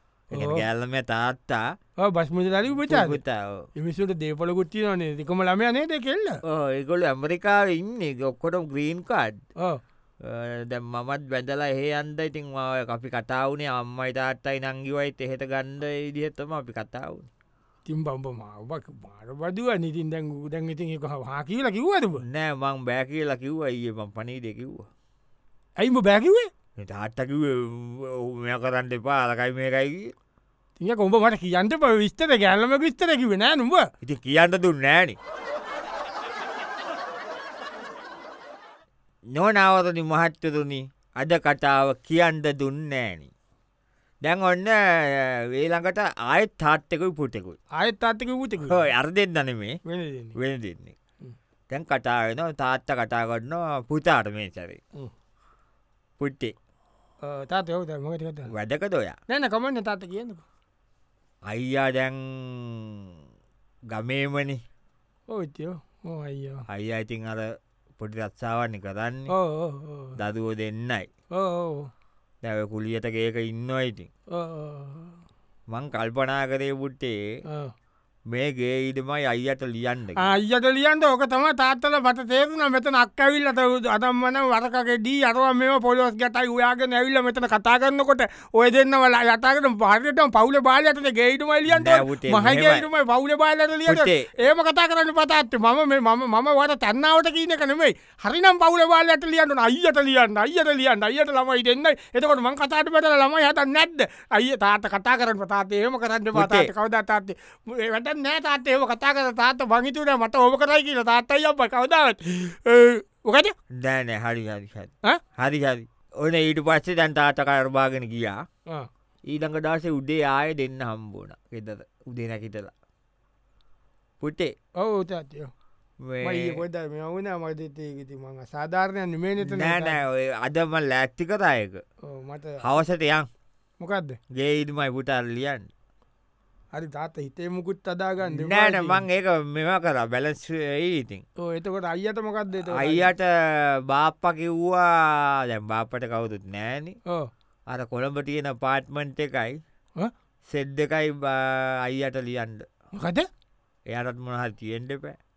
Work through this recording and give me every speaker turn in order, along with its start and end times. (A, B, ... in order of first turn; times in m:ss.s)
0:00.3-0:00.6 A
0:00.3-0:01.7 B
0:02.0-0:03.2 A
0:02.7-0:03.7 B
0:03.8-0:06.4 A
0:06.4-0:09.4 B
0:10.2-0:17.3 B
0:17.9-0:22.2 A
0:22.2-0:24.9 B
0:25.8-0:26.5 A
0:26.8-0:30.1 B
0:30.8-0:33.9 A
0:34.0-0:35.2 B
0:39.3-0:43.3 B
0:44.2-0:47.6 B
0:47.8-0:48.9 A
0:48.6-0:49.8 B
0:49.8-0:50.4 A
0:50.4-0:51.0 B
0:51.7-0:54.8 B
0:56.2-0:56.5 B
0:57.2-0:58.5 A
0:58.5-0:59.2 B
0:59.3-1:00.4 A
1:01.5-1:03.1 B
1:03.9-1:04.6 B
1:05.3-1:06.6 A
1:06.7-1:09.3 B
1:09.3-1:10.2 A
1:10.2-1:11.1 B
1:11.3-1:11.9 A
1:12.4-1:14.1 B
1:14.3-1:15.2 A
1:15.7-1:17.2 B
1:17.5-1:17.7 A
1:18.3-1:20.3 B
1:20.2-1:53.5 A
1:31.7-1:32.9 B
1:33.9-1:34.4 B
1:46.3-1:46.7 B
1:53.7-1:58.4 B
1:59.3-2:02.7 B
2:04.2-2:04.5 B
2:04.8-2:05.5 A
2:06.0-2:06.6 B
2:06.2-2:10.0 A
2:09.4-2:11.8 B
2:12.0-2:12.6 A
2:12.6-2:13.3 B
2:13.8-2:14.2 A
2:14.3-2:15.7 B
2:16.7-2:19.0 A
2:18.2-2:21.2 B
2:21.4-2:23.1 A
2:22.6-2:27.0 B
2:27.7-2:29.6 B
2:30.5-2:32.7 B
2:32.9-2:33.3 A
2:33.9-2:35.2 B